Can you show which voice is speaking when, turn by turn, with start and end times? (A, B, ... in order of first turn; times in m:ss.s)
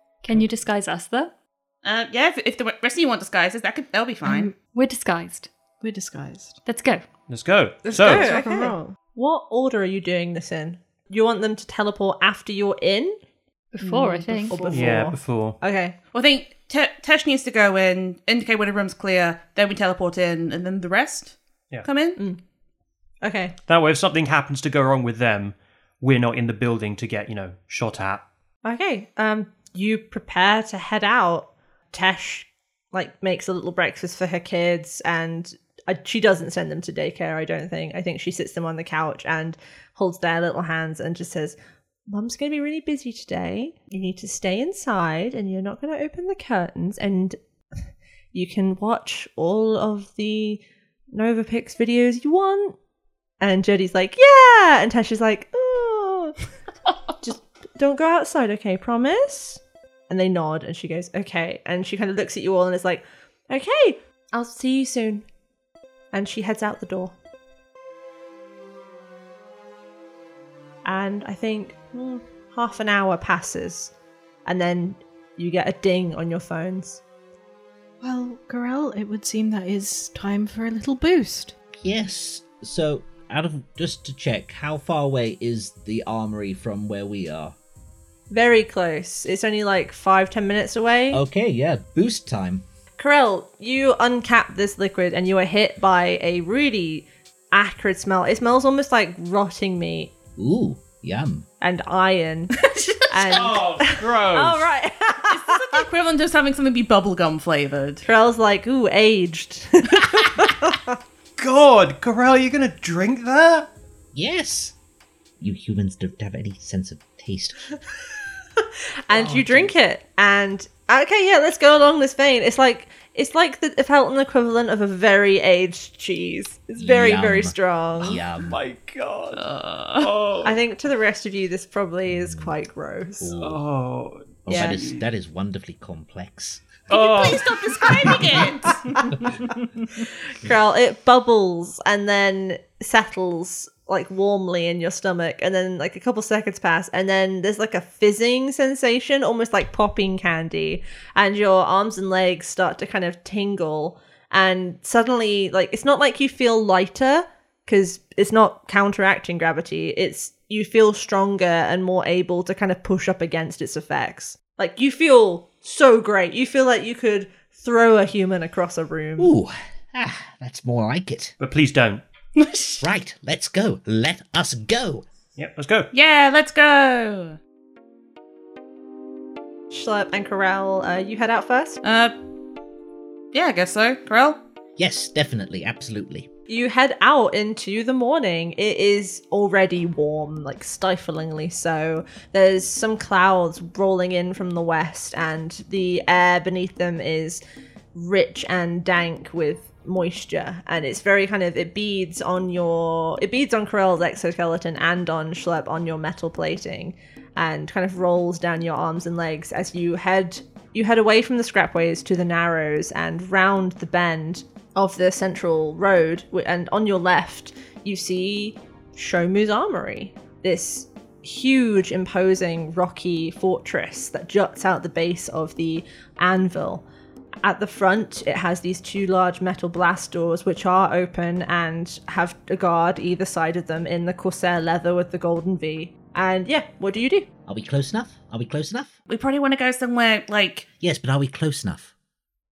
0:00.2-0:01.3 A
0:01.8-0:04.5 B
0:04.2-0:04.5 C
0:04.7-0:05.5 A
0:05.8-0:06.6 C
0:06.6-0:07.0 A
0:07.3-0:08.3 D
0:07.8-0:09.0 C
0:07.9-0:13.2 E
0:13.7-0:14.7 A
0:13.8-0:14.2 B
0:14.4-0:15.0 C
0:14.5-0:15.9 E
0:14.7-0:15.6 D
0:16.1-0:22.2 B
0:23.2-0:23.5 E
0:23.7-0:28.2 D
0:28.6-0:41.6 E
0:42.1-0:47.4 E
0:48.3-0:52.8 E
0:53.4-0:56.4 E
0:57.2-1:05.2 E
1:06.1-1:07.1 E
1:10.8-1:13.9 E
1:14.4-1:17.0 E
1:18.0-1:21.5 C
1:21.8-1:27.5 F
1:28.3-1:31.2 E
1:31.1-1:32.6 F
1:33.0-1:40.1 E
1:40.4-1:41.4 F
1:41.6-1:42.6 E
1:42.6-1:43.0 B
1:43.1-1:45.8 E
1:43.1-1:44.7 D
1:45.3-1:48.0 B
1:48.0-1:50.9 E
1:51.4-1:53.7 D
1:54.1-1:54.7 F
1:55.4-1:57.6 F
1:59.1-2:08.2 E
1:59.1-1:59.7 F
2:06.8-2:08.6 F
2:08.1-2:09.4 D
2:09.3-2:10.1 B
2:10.0-2:10.6 D
2:10.4-2:13.3 E
2:12.1-2:12.5 F
2:13.2-2:13.6 F
2:13.4-2:15.0 D
2:14.4-2:17.3 F
2:14.5-2:14.8 E
2:16.9-2:17.5 D
2:16.9-2:18.8 B
2:20.4-2:49.3 E
2:49.2-2:51.3 F
2:51.4-2:52.0 D
2:52.4-2:52.8 B
2:52.8-2:55.0 F
2:55.4-2:55.9 D
2:55.9-2:57.4 B
2:59.7-3:01.8 E
3:01.8-3:02.1 B
3:03.3-3:04.4 B
3:04.8-3:06.3 F
3:06.5-3:17.4 E
3:17.9-3:46.8 E
3:47.4-3:57.3 E
3:57.5-3:58.9 F
3:59.1-4:00.7 B
4:00.8-4:01.9 F